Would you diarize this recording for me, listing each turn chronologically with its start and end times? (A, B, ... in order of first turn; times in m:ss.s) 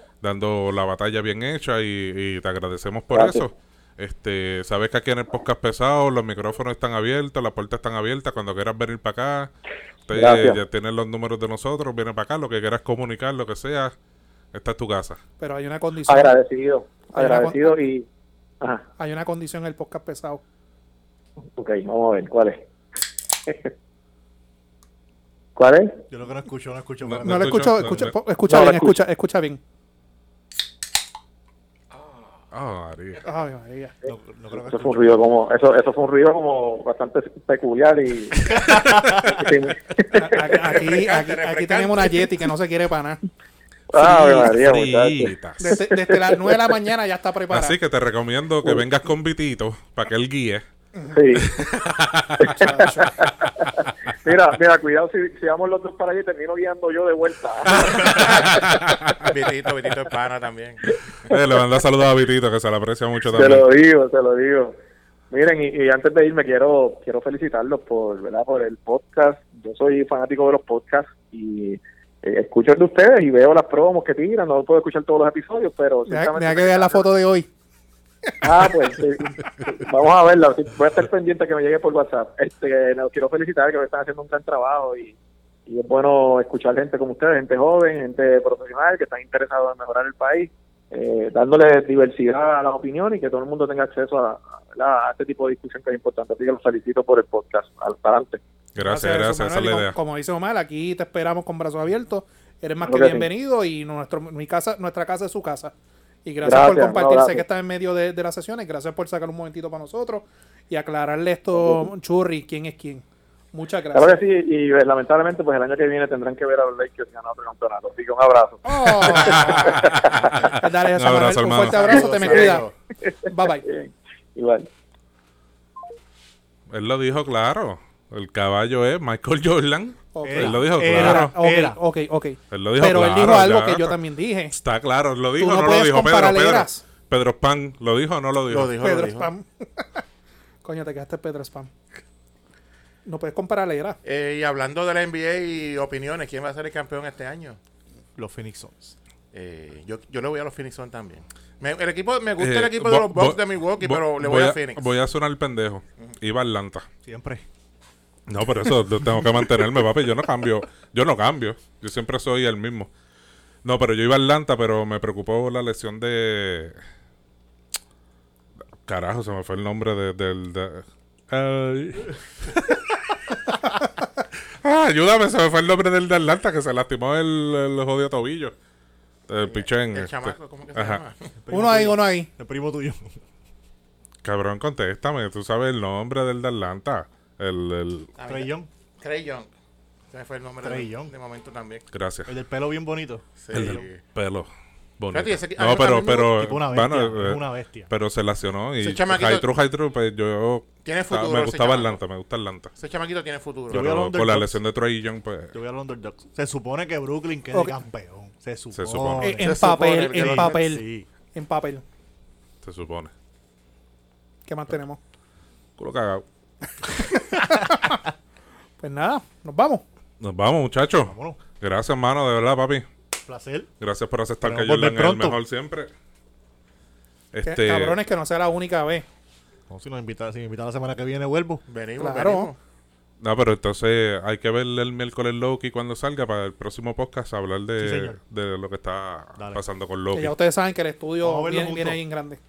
0:00.2-0:09.5 A
0:03.1-0:03.5 B
0:10.1-0:13.9 A
0:10.1-0:10.6 B
0:14.5-0:15.2 A
0:15.4-0:16.4 C
0:16.1-0:18.1 B
0:17.1-0:17.8 C
0:19.0-0:20.4 C
0:21.6-0:22.6 B
0:23.5-0:23.7 B
0:25.6-0:26.0 B
0:26.1-0:27.7 D
0:27.0-0:28.1 A
0:27.2-0:29.6 C
0:28.5-0:29.0 B
0:32.5-0:33.2 A
0:33.2-0:34.0 C
0:34.1-0:35.2 D
0:34.6-0:40.6 B
0:38.7-0:39.2 D
0:40.1-0:43.2 C
0:40.5-0:42.3 E
0:43.9-0:46.6 B
0:43.9-0:45.6 A
0:45.6-0:47.8 C
0:47.5-0:50.6 A
0:51.1-0:51.6 B
0:51.4-0:52.6 A
0:52.4-0:58.6 B
0:52.5-0:53.1 C
0:57.7-0:59.1 A
0:58.1-0:58.5 E
0:59.2-1:00.8 E
1:01.3-1:03.7 A
1:01.3-1:01.6 B
1:03.3-1:04.8 B
1:05.3-1:17.1 B
1:16.1-1:17.5 C
1:18.4-1:38.4 B
1:38.8-1:39.9 A
1:38.8-1:45.7 C
1:42.8-1:43.3 B
1:46.2-1:54.2 C
1:46.4-1:47.4 B
1:51.6-1:51.9 B
1:53.9-2:00.2 B
1:58.6-1:59.8 C
1:59.0-2:02.0 A
2:00.5-2:02.6 C
2:01.8-2:02.7 E
2:01.9-2:04.7 B
2:03.3-2:03.7 C
2:06.7-2:11.3 A
2:10.1-2:14.6 C
2:10.2-2:11.8 D
2:12.5-2:14.0 A
2:14.5-2:18.8 A
2:15.4-2:16.8 C
2:18.5-2:19.3 E
2:18.8-2:20.0 C
2:20.6-2:21.7 C
2:23.1-2:24.0 C
2:24.0-2:27.6 E
2:28.2-2:29.0 D
2:29.3-2:34.9 E
2:32.4-2:36.9 A
2:37.0-2:37.5 D
2:38.3-2:42.9 A
2:43.6-2:46.8 A
2:48.8-2:53.9 A
2:54.6-2:58.5 A
2:59.3-3:01.0 A
2:59.4-3:01.3 E
3:01.4-3:03.2 D
3:01.5-3:02.3 C
3:04.2-3:08.1 A
3:08.2-3:09.5 E
3:08.3-3:08.7 D
3:10.1-3:11.9 E
3:10.6-3:11.1 D
3:11.9-3:12.3 A
3:12.3-3:13.8 D
3:13.4-3:14.0 E
3:13.5-3:22.7 A
3:15.1-3:16.4 E
3:16.3-3:17.9 D
3:18.8-3:19.5 E
3:20.8-3:22.0 E
3:22.8-3:24.0 E
3:23.7-3:24.6 D
3:23.7-3:25.6 A
3:25.5-3:29.6 D
3:28.7-3:29.3 A
3:29.2-3:31.8 C
3:29.4-3:30.6 E
3:30.1-3:31.1 D
3:32.6-3:33.1 A
3:34.5-3:35.0 C
3:35.8-3:36.2 A
3:37.1-3:38.0 C
3:38.8-3:39.8 C
3:40.2-3:42.9 A
3:41.0-3:41.4 D
3:43.2-3:43.7 D
3:43.8-3:45.9 A
3:44.4-3:45.4 D
3:47.3-3:48.0 A
3:47.4-3:49.0 C
3:49.7-3:51.6 D
3:51.7-3:52.6 E
3:52.0-3:52.5 C
3:53.2-4:00.3 A
3:57.8-3:58.2 D
4:00.1-4:02.4 C
4:01.2-4:02.0 D